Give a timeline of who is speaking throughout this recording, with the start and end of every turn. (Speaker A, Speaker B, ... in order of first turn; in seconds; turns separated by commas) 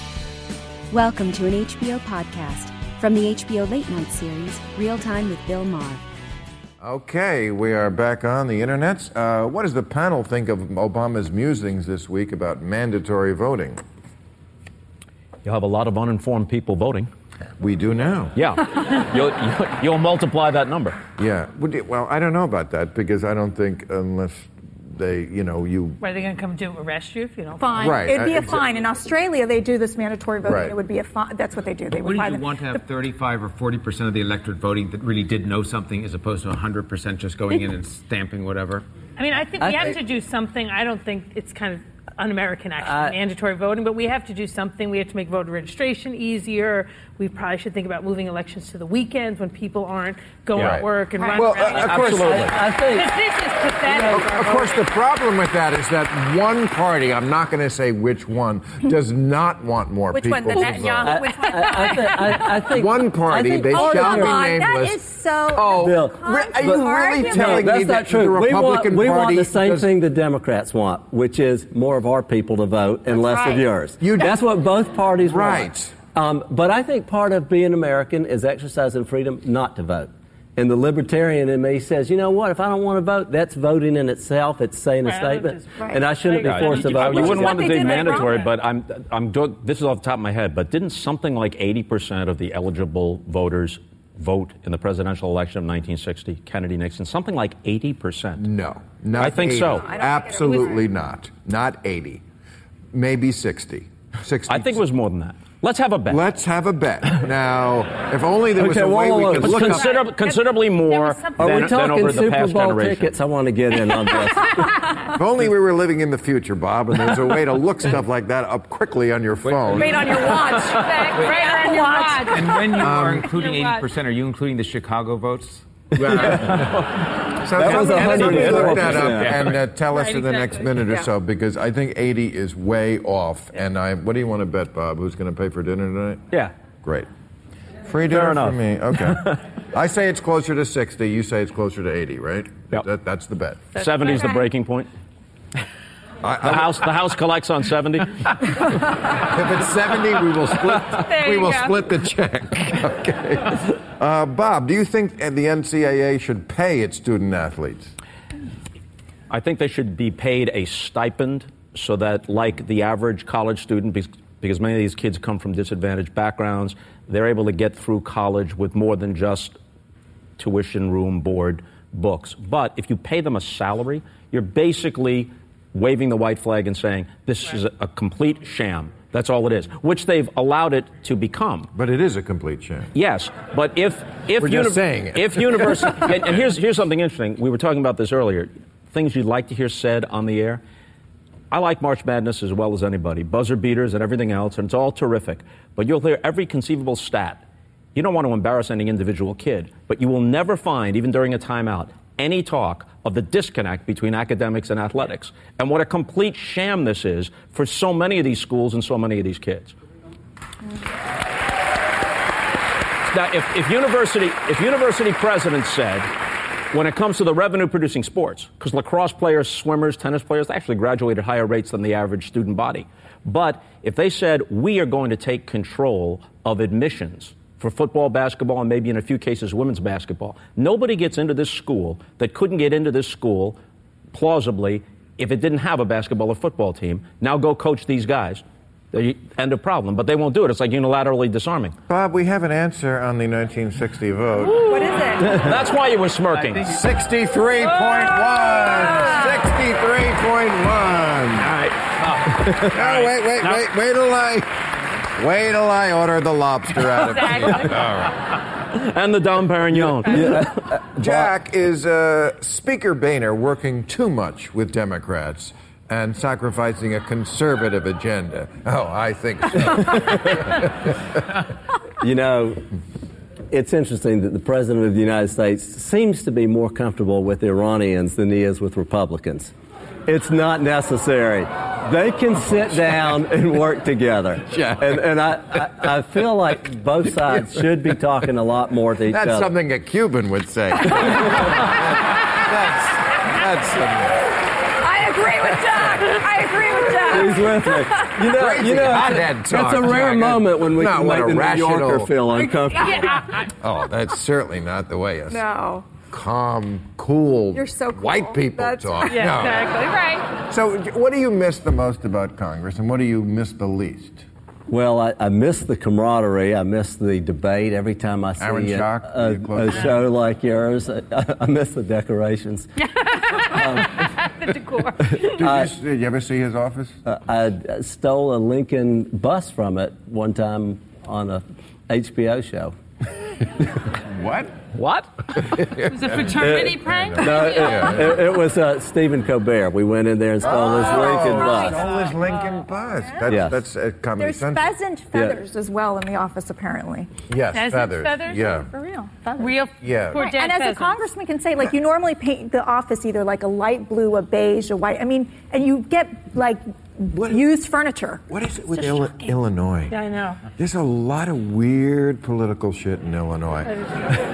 Speaker A: 0.9-6.0, Speaker B: 6.8-13.8, Speaker C: 15.4-17.1, Speaker B: 17.6-18.3, Speaker C: 18.3-21.0, Speaker B: 21.2-26.0, Speaker D: 26.0-28.1, Speaker E: 27.6-32.9, Speaker B: 27.8-28.6, Speaker B: 30.4-30.7, Speaker F: 32.0-38.9, Speaker D: 39.2-54.8, Speaker G: 39.6-40.0, Speaker G: 42.8-43.2, Speaker B: 50.5-52.4, Speaker E: 51.2-51.5, Speaker G: 51.7-53.1, Speaker C: 51.8-52.5, Speaker G: 53.8-54.3, Speaker B: 54.1-61.1, Speaker D: 60.1-62.5, Speaker E: 60.2-62.3, Speaker G: 61.0-64.4, Speaker B: 62.7-69.9, Speaker E: 63.7-67.7, Speaker G: 65.7-87.6, Speaker E: 73.1-73.6, Speaker B: 74.0-74.4, Speaker B: 75.2-75.9, Speaker D: 85.0-88.5, Speaker E: 85.8-86.0, Speaker C: 86.4-98.5, Speaker E: 86.9-88.4, Speaker B: 98.4-102.2, Speaker C: 99.2-99.8, Speaker E: 99.7-100.8, Speaker B: 102.9-104.8, Speaker C: 104.5-106.2, Speaker B: 106.0-109.9, Speaker G: 108.5-109.8, Speaker C: 109.4-113.1, Speaker D: 109.7-112.2, Speaker G: 111.4-115.1, Speaker B: 115.1-119.9, Speaker F: 119.5-121.7, Speaker E: 119.7-123.2, Speaker D: 120.9-123.9, Speaker F: 122.3-125.6, Speaker B: 122.8-123.3, Speaker B: 125.9-126.8, Speaker G: 126.2-126.5, Speaker B: 127.4-136.2, Speaker G: 127.6-129.4, Speaker F: 127.7-128.6, Speaker F: 129.2-129.5, Speaker D: 129.9-130.8, Speaker B: 137.9-143.7, Speaker C: 138.0-139.4, Speaker D: 143.7-144.5, Speaker C: 143.7-144.9, Speaker B: 146.2-146.8, Speaker C: 146.4-148.5, Speaker B: 149.1-157.9, Speaker D: 151.0-151.7, Speaker C: 159.3-169.6, Speaker C: 170.4-181.7, Speaker B: 181.7-182.9, Speaker C: 182.9-190.6, Speaker B: 184.4-186.2, Speaker C: 191.5-197.4, Speaker C: 197.9-209.7, Speaker C: 213.1-216.1, Speaker C: 216.7-233.6, Speaker C: 234.1-241.7, Speaker B: 241.9-244.9, Speaker E: 244.4-245.4, Speaker C: 245.2-246.8, Speaker F: 246.3-246.8, Speaker B: 246.7-251.5, Speaker D: 247.7-248.1, Speaker E: 248.4-249.4, Speaker C: 251.4-253.6, Speaker B: 252.6-254.5, Speaker B: 255.1-258.1, Speaker D: 256.9-257.8, Speaker C: 258.7-260.5, Speaker G: 259.7-261.3, Speaker B: 260.9-270.7, Speaker G: 272.0-272.6, Speaker G: 273.5-279.5, Speaker G: 280.1-289.5, Speaker B: 284.5-285.2, Speaker B: 287.3-287.6, Speaker B: 289.1-294.3, Speaker E: 294.8-298.0, Speaker G: 297.1-303.2, Speaker B: 298.2-302.1, Speaker D: 302.8-303.5, Speaker B: 303.6-305.4, Speaker E: 305.3-305.9, Speaker B: 306.0-309.7, Speaker E: 307.5-309.4, Speaker D: 309.1-310.3, Speaker B: 310.5-314.2, Speaker G: 314.7-322.7, Speaker B: 318.4-319.9, Speaker D: 322.8-325.1, Speaker G: 323.4-324.0, Speaker G: 325.0-325.7, Speaker B: 325.2-327.0, Speaker G: 327.1-332.7, Speaker B: 334.1-334.5, Speaker C: 334.7-335.5, Speaker B: 335.6-338.2, Speaker D: 335.8-338.2, Speaker G: 336.4-341.8, Speaker B: 340.4-344.7, Speaker E: 340.4-340.9, Speaker D: 341.0-341.9, Speaker G: 343.3-343.6, Speaker E: 344.2-347.1, Speaker G: 345.1-345.4, Speaker B: 347.3-348.7, Speaker D: 347.5-348.4, Speaker E: 348.4-358.2, Speaker D: 349.4-351.0, Speaker B: 349.8-350.2, Speaker B: 357.1-357.4, Speaker B: 358.3-359.9, Speaker D: 358.8-359.3, Speaker D: 359.9-360.4, Speaker B: 360.5-364.1